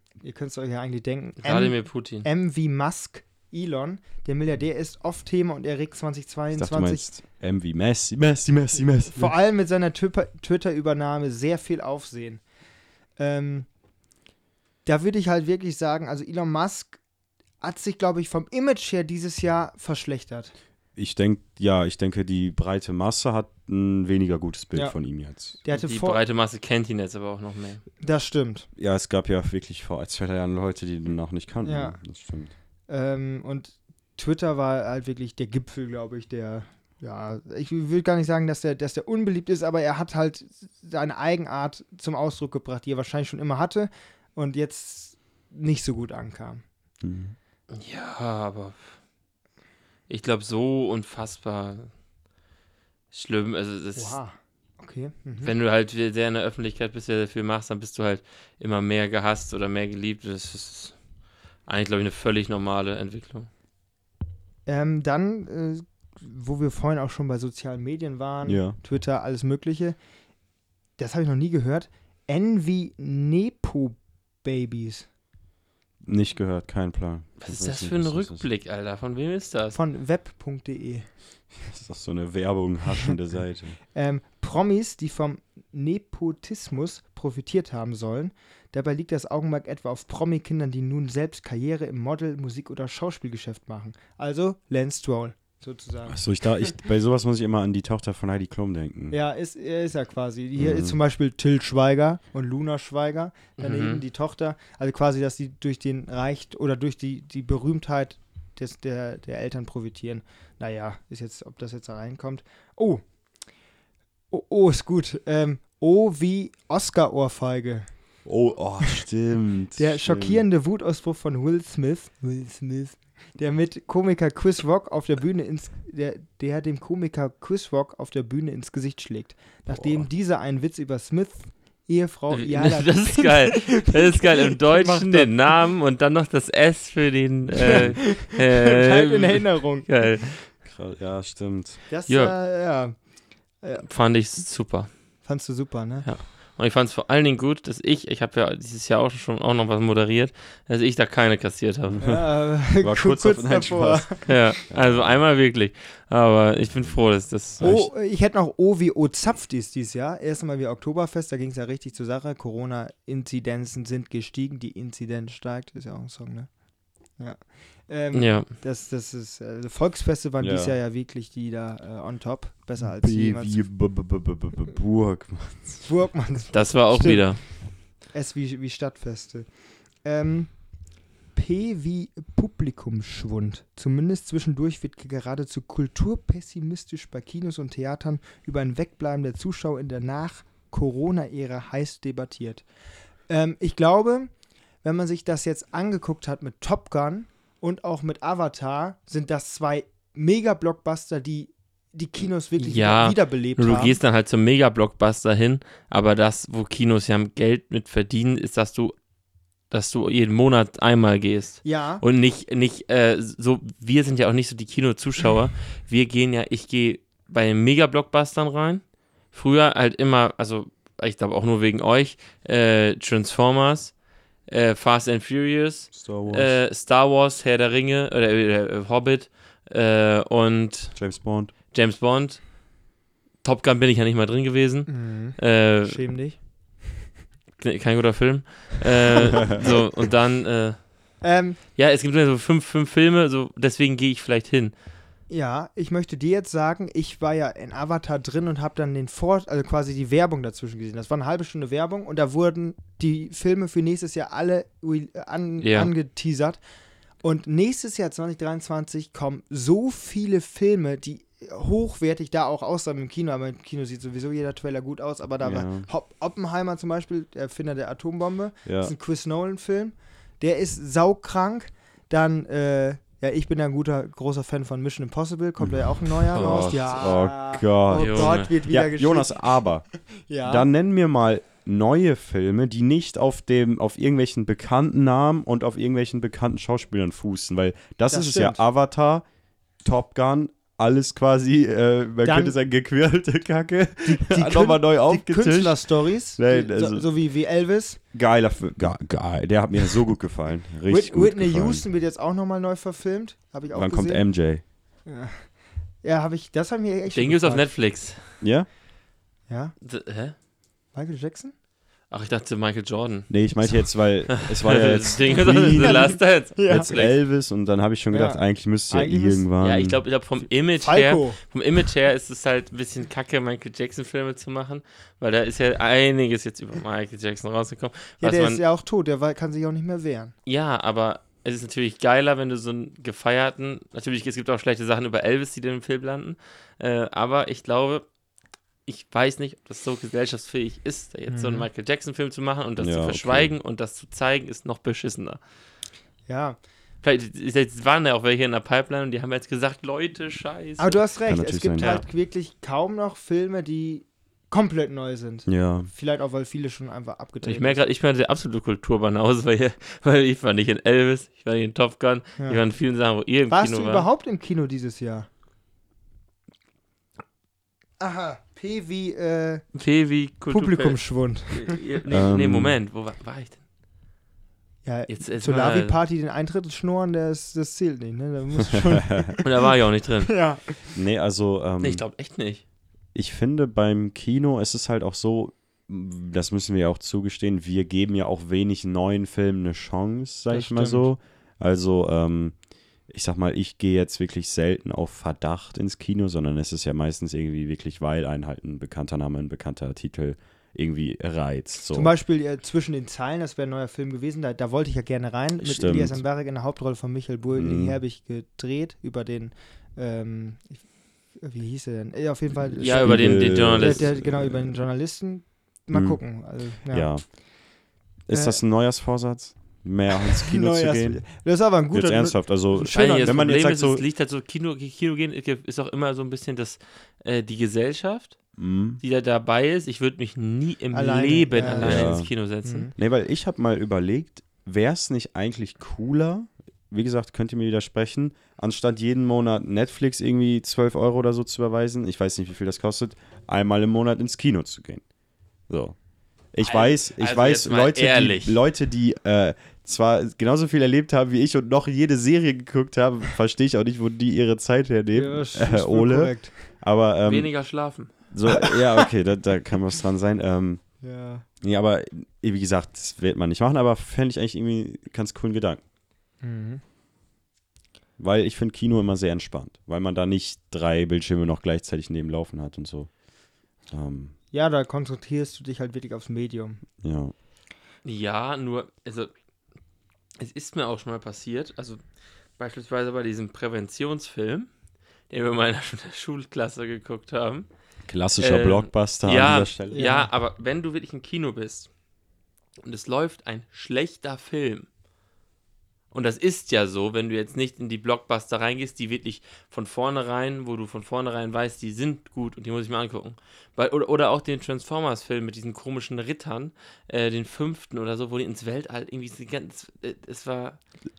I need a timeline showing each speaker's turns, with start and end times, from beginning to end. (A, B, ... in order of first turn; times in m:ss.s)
0:00.2-0:07.0 A
0:01.4-0:02.2 B
0:06.5-0:09.3 C
0:09.1-0:12.4 A
0:13.2-0:13.7 A
0:14.8-0:17.0 A
0:17.6-0:20.5 A
0:21.0-0:25.6 C
0:25.6-0:26.2 A
0:25.7-0:27.8 B
0:28.0-0:28.7 A
0:28.8-0:32.5 C
0:31.6-0:32.0 A
0:32.9-0:46.6 A
0:47.0-0:47.4 C
0:47.7-0:48.9 B
0:50.1-0:51.9 B
0:53.1-0:54.2 B
0:54.0-0:55.5 A
0:55.4-1:01.0 B
1:01.7-1:03.5 B
1:04.6-1:10.0 A
1:08.4-1:08.8 C
1:11.0-1:15.1 A
1:16.0-1:18.4 C
1:17.4-1:19.8 B
1:19.7-1:21.1 A
1:21.6-1:23.8 C
1:23.9-1:36.7 A
1:36.1-1:39.2 C
1:39.1-1:53.0 A
1:40.6-1:41.0 C
1:43.6-1:44.0 B
1:54.3-1:57.9 A
1:58.2-2:00.4 C
1:59.8-2:15.4 A
2:09.7-2:10.1 C
2:12.3-2:20.4 B
2:17.7-2:20.0 A
2:20.6-2:21.8 C
2:21.9-2:23.0 A
2:22.1-2:22.3 B
2:23.8-2:25.1 B
2:25.2-2:26.1 A
2:26.0-2:32.0 B
2:31.9-2:35.2 C
2:32.0-2:34.6 A
2:34.2-2:37.8 B
2:37.6-2:37.8 C
2:37.6-2:46.5 A
2:47.2-2:53.6 A
2:48.1-2:48.5 B
2:50.4-2:50.8 C
2:52.8-2:55.8 C
2:55.8-2:59.5 A
2:56.5-2:57.4 B
3:00.0-3:00.8 A
3:01.3-3:12.6 A
3:13.3-3:14.3 A
3:14.8-3:24.0 A
3:22.6-3:28.9 B
3:29.7-3:51.0 B
3:31.6-3:32.0 A
3:45.9-3:46.6 C
3:51.0-3:51.5 C
3:51.7-3:52.4 B
3:53.4-3:56.0 B
3:54.9-3:56.4 A
3:57.6-4:01.1 B
4:01.2-4:01.6 A
4:01.8-4:04.7 B
4:05.3-4:16.6 A
4:15.6-4:15.9 B
4:17.2-4:40.7 A
4:25.4-4:25.9 C
4:28.6-4:28.9 C
4:35.6-4:39.9 C
4:36.3-4:36.9 B
4:37.9-4:38.5 B
4:40.4-4:49.2 C
4:48.1-4:48.6 A
4:49.8-4:57.1 C
4:52.2-4:52.5 A
4:54.0-4:58.0 A
4:58.1-5:01.8 C
5:00.9-5:04.2 A
5:03.7-5:04.6 C
5:05.0-5:05.5 A
5:06.0-5:07.7 A
5:07.1-5:08.2 B
5:08.4-5:08.7 C
5:09.5-5:09.7 A
5:09.8-5:10.3 B
5:10.9-5:11.5 A
5:12.1-5:13.5 B
5:13.3-5:20.0 C
5:14.3-5:17.1 B
5:15.8-5:16.9 A
5:18.1-5:19.4 A
5:19.6-5:28.6 B
5:20.8-5:21.4 A
5:28.2-5:30.3 A
5:30.4-5:38.0 B
5:38.8-5:45.4 B
5:41.3-5:41.7 A
5:42.8-5:43.5 C
5:46.3-5:46.6 A
5:47.0-5:51.0 B
5:50.8-5:57.8 A
5:51.2-5:52.0 C
5:55.5-5:55.9 C
5:57.4-6:04.1 B
6:03.5-6:05.3 A
6:08.0-6:09.6 A
6:09.7-6:13.6 B
6:10.5-6:11.8 A
6:12.1-6:12.8 C
6:14.8-6:19.5 A
6:15.1-6:16.0 B
6:19.4-6:20.4 B
6:20.2-6:20.8 A
6:20.9-6:22.0 C
6:21.8-6:22.6 B
6:23.1-6:32.5 C
6:30.5-6:31.1 A
6:33.1-6:42.1 C
6:41.9-6:57.4 A
6:45.6-6:46.2 C
6:47.5-6:48.0 C
6:52.7-6:54.8 C
6:52.8-6:54.1 B
6:55.9-6:56.2 C
6:56.8-6:57.3 C
6:58.3-7:01.3 C
6:58.3-6:58.6 A
7:00.4-7:03.5 A
7:01.9-7:04.0 C
7:02.9-7:08.4 B
7:08.6-7:09.0 C
7:09.0-7:12.9 B
7:10.9-7:12.9 A
7:11.8-7:12.3 C
7:13.0-7:25.0 C
7:25.7-7:26.0 C
7:26.5-7:37.5 C
7:26.6-7:28.6 B
7:35.1-7:36.5 A
7:37.2-7:38.1 B
7:38.3-7:40.8 C
7:41.0-7:41.4 A
7:41.6-7:45.8 C
7:46.4-7:46.8 A
7:48.2-7:53.1 C
7:53.9-7:54.3 C
7:54.5-7:56.8 A
7:57.0-7:57.3 C
7:58.0-7:59.3 B
8:00.4-8:02.0 B
8:02.6-8:04.7 B
8:05.3-8:07.7 B
8:08.1-8:10.0 C
8:08.4-8:11.9 B
8:09.9-8:10.3 A
8:12.8-8:14.9 B
8:16.1-8:30.8 B